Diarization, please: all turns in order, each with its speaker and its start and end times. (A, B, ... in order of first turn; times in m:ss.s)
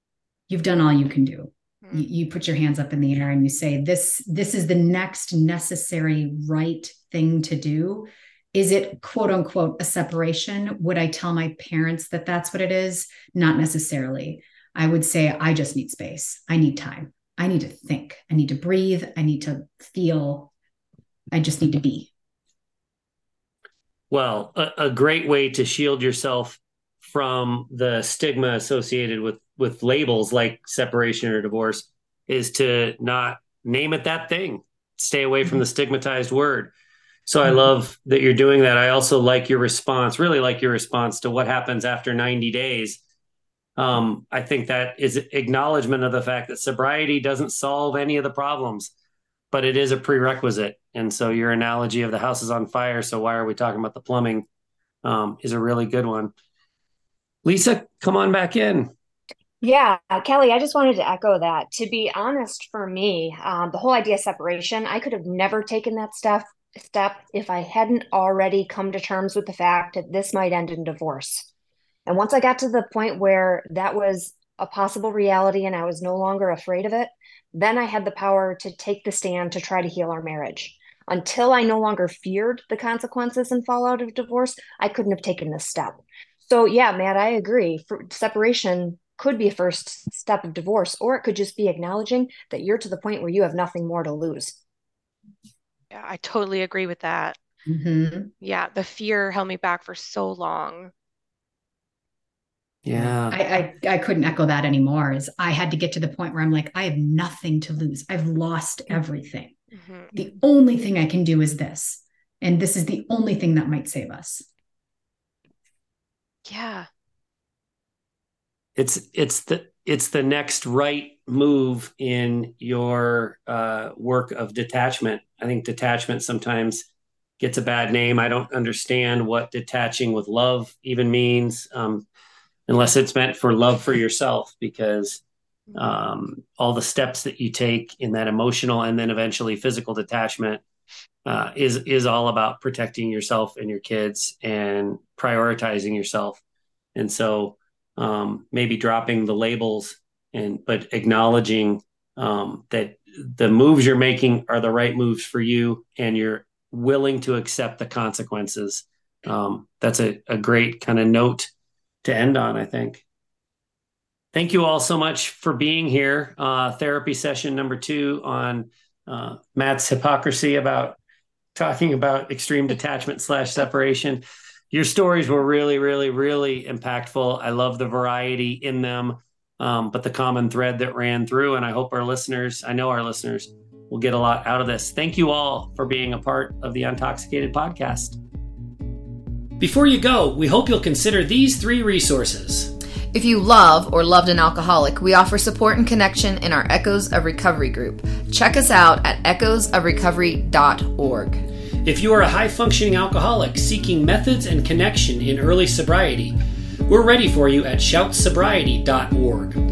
0:00.5-0:20.5 A
0:01.8-0:02.1 B
0:21.3-0:22.1 A
0:24.1-0:36.7 C
0:37.3-0:43.0 C
0:37.4-0:37.7 A
0:43.8-0:48.9 C
0:49.5-0:54.5 C
0:55.0-0:56.3 C
0:57.4-0:58.9 C
0:59.6-1:11.5 D
1:12.1-1:34.6 D
1:35.9-1:37.4 B
1:37.7-1:38.3 A
1:38.4-1:40.9 B
1:42.8-1:43.4 C
1:43.0-1:49.6 A
1:49.7-1:50.2 B
1:50.1-1:54.5 A
1:56.5-1:56.9 B
1:58.8-2:06.9 C
2:07.4-2:12.1 C
2:12.7-2:15.2 C
2:15.8-2:20.6 C
2:21.2-2:26.4 C
2:27.0-2:41.5 C
2:42.0-2:43.0 C
2:44.3-2:51.0 C
2:51.6-3:08.2 C
3:09.6-3:12.7 C
3:13.1-3:21.4 E
3:21.8-3:26.4 C
3:26.9-3:29.6 C